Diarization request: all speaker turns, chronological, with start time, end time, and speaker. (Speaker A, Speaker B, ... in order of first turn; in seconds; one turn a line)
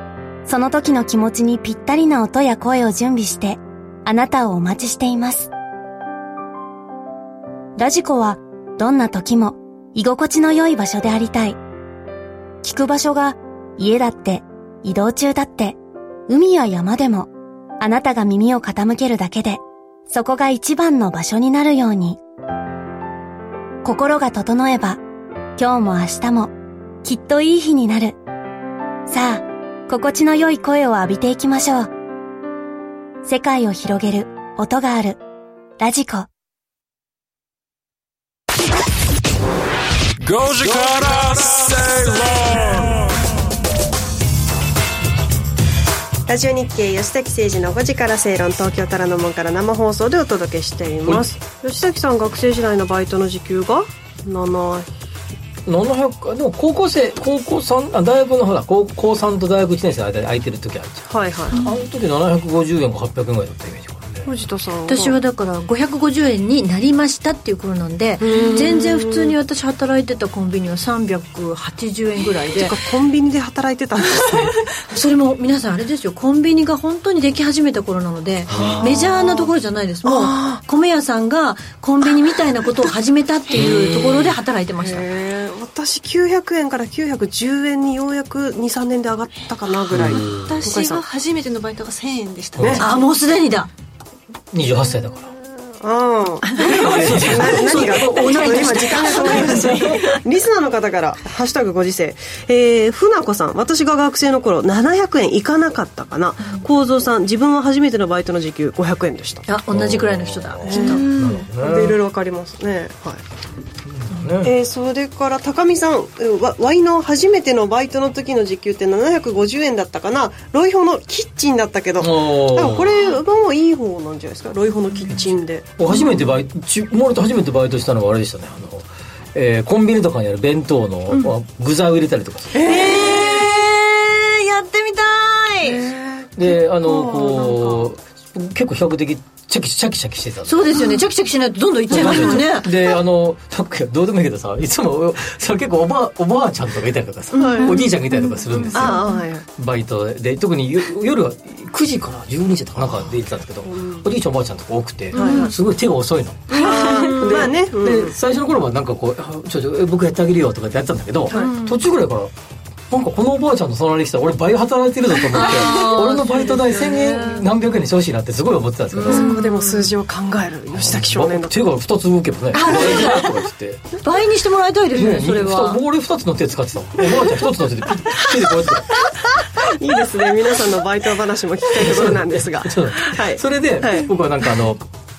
Speaker A: 0.5-5.5
Speaker A: 7.8-11.6
Speaker A: 12.6-22.2
Speaker A: 23.8-25.0
Speaker A: 25.6-26.5
Speaker A: 27.0-28.2
Speaker A: 29.1-31.9
Speaker A: 33.2-35.2
Speaker A: 35.8-36.3
Speaker B: 40.2-43.1
Speaker C: 46.3-54.9
Speaker D: 55.6-64.3
Speaker C: 61.1-61.6
Speaker C: 64.2-65.2
Speaker E: 64.9-72.7
Speaker C: 68.2-69.3
Speaker C: 72.5-74.5
Speaker E: 74.9-85.0
Speaker D: 78.5-78.9
Speaker C: 78.5-79.5
Speaker C: 80.0-80.6
Speaker D: 83.5-84.4
Speaker C: 84.8-91.0
Speaker D: 89.9-90.6
Speaker F: 90.1-92.9
Speaker D: 92.6-92.8
Speaker C: 92.6-92.8
Speaker E: 92.8-93.7
Speaker D: 94.5-95.3
Speaker C: 95.8-109.5
Speaker E: 96.6-100.0
Speaker D: 96.7-99.8
Speaker E: 109.5-111.1
Speaker D: 109.7-112.0
Speaker C: 110.6-113.2
Speaker F: 111.0-111.4
Speaker D: 113.9-114.5
Speaker C: 114.4-125.7
Speaker D: 122.0-123.0
Speaker D: 125.1-132.8
Speaker C: 132.5-133.5
Speaker E: 132.6-135.8
Speaker C: 135.6-137.9
Speaker D: 136.4-140.8
Speaker E: 140.4-142.7
Speaker D: 141.9-149.0
Speaker C: 147.3-147.8
Speaker E: 148.5-148.8
Speaker C: 148.7-149.4
Speaker D: 149.6-162.3
Speaker C: 153.6-154.1
Speaker C: 155.1-155.5
Speaker F: 155.2-155.4
Speaker E: 155.2-155.5
Speaker C: 156.6-158.1
Speaker E: 156.6-157.2
Speaker E: 161.3-161.8
Speaker D: 162.9-169.3
Speaker E: 165.3-167.4
Speaker E: 169.0-169.9
Speaker C: 169.0-171.6
Speaker F: 169.1-169.5
Speaker D: 170.7-173.9
Speaker E: 172.5-173.3
Speaker E: 174.0-175.8
Speaker D: 174.9-179.1
Speaker C: 179.6-184.1
Speaker D: 181.7-184.8